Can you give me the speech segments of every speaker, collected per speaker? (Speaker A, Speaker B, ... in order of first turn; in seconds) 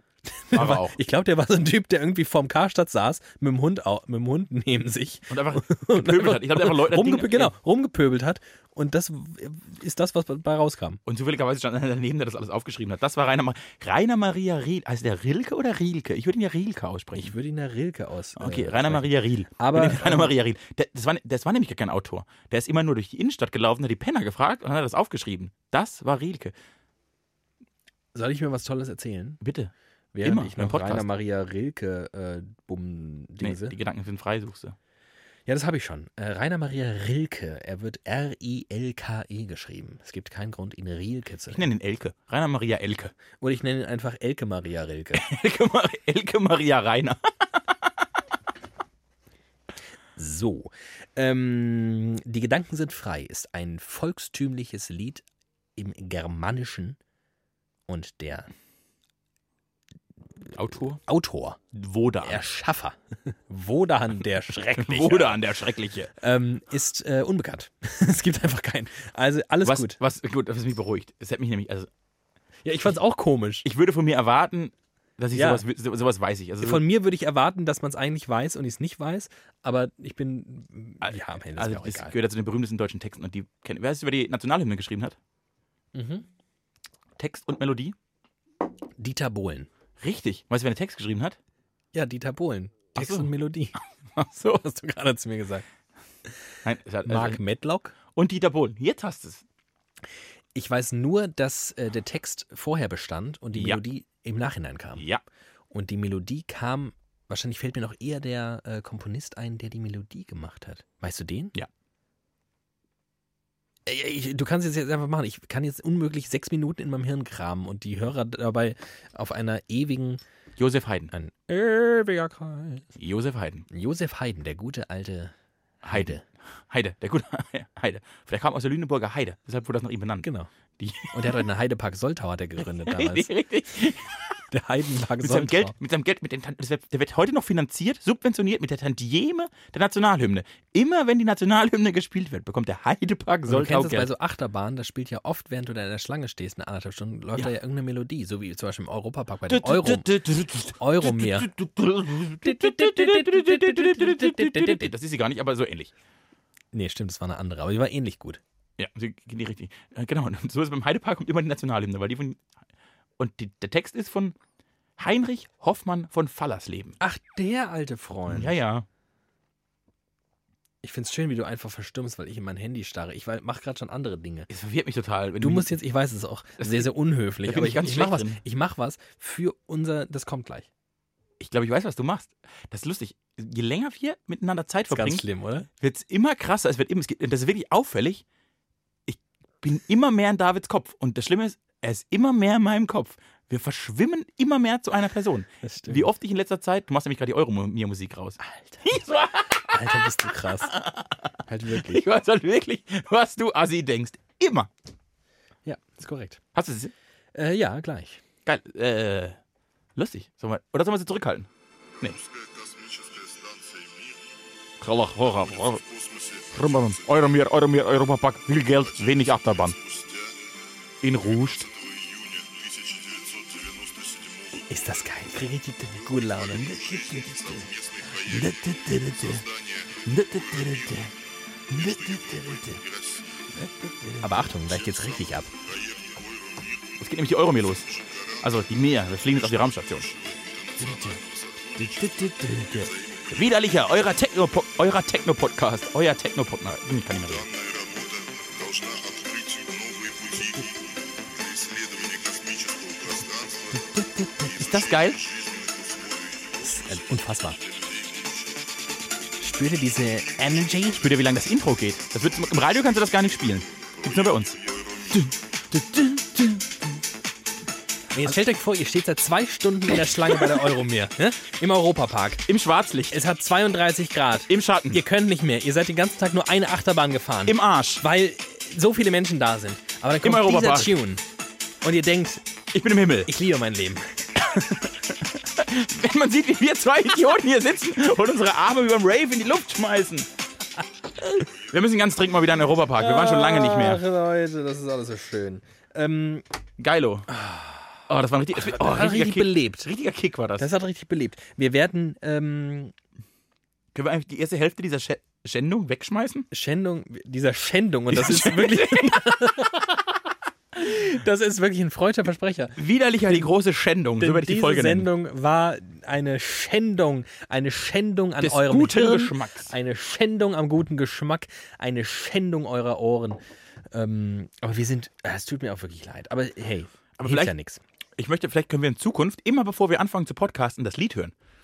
Speaker A: 0.4-11.0, 17.1-20.3, 28.1-29.4, 30.1-33.8, 35.5-41.7, 43.4-45.2, 50.2-55.2, 55.8-57.0, 57.9-58.5, 61.1-61.6, 62.2-65.5, 66.1-70.0, 72.7-73.7, 75.3-75.6, 76.6-82.2, 85.9-86.3, 89.0-89.7, 91.9-93.8, 94.5-95.7, 97.1-98.0, 100.5-105.1, 105.7-111.6, 113.9-120.2, 121.1-122.9, 123.7-126.2, 130.2-130.5, 131.1-133.3, 134.5-135.8, 143.5-151.5, 152.4-154.9, 156.7-158.4, 167.0-168.6, 170.8-174.5, 175.4-180.7, 184.9-185.7, 195.6-196.1, 198.4-198.9, 199.6-200.8, 201.5-202.1, 205.7-206.4, 207.3-208.2, 224.7-226.8, 234.2-235.5, 253.9-254.5, 256.6-257.6, 259.4-261.1, 268.1-272.5, 273.1-281.2, 281.8-282.4, 283.3-284.2, 293.0-296.4, 297.3-298.0, 298.6-299.9, 300.6-302.9, 306.5-309.9, 310.8-313.5, 314.2-323.4, 323.9-327.8
Speaker B: 0.5-1.0, 5.3-7.5, 11.1-17.3, 18.4-26.5, 29.4-31.1, 33.4-34.8, 41.5-43.1, 45.1-47.9, 60.5-61.0, 61.7-62.5, 64.8-66.1, 69.6-71.9, 73.6-76.8, 81.0-85.2, 87.2-88.0, 90.0-91.4, 93.0-93.3, 94.2-94.6, 96.6-97.4, 98.1-99.4, 103.5-103.8, 105.0-105.2, 120.6-121.1, 123.0-123.7, 125.8-126.1, 126.7-130.3, 130.8-131.4, 132.6-134.4, 135.2-144.1, 149.5-155.9, 158.8-162.4, 163.2-164.4, 165.0-167.0, 168.3-168.9, 174.5-175.8, 176.6-176.9, 177.4-178.4, 181.4-185.2, 185.8-188.2, 189.1-204.7, 206.5-206.9, 208.4-209.4, 210.0-211.5, 214.8-215.8, 216.5-219.8, 221.0-221.7, 226.5-229.4, 230.1-231.1, 231.7-232.8, 233.5-234.4, 237.0-237.9, 238.4-240.1, 240.8-241.2, 241.8-247.5, 254.4-255.2, 261.0-264.6, 265.1-267.0, 272.5-273.2, 274.5-275.0, 277.5-278.0, 280.2-281.0, 282.7-283.3, 284.4-290.3, 291.3-294.0, 296.8-297.3, 298.1-300.7, 303.9-306.5, 308.1-309.8, 312.8-315.1, 318.4-319.7, 327.2-327.5, 328.2-331.3
Speaker C: 212.0-214.4, 215.4-217.4, 218.7-220.4, 221.1-224.9, 225.9-231.1, 231.7-233.4, 234.6-237.1, 237.7-243.7, 247.2-258.7, 263.9-265.4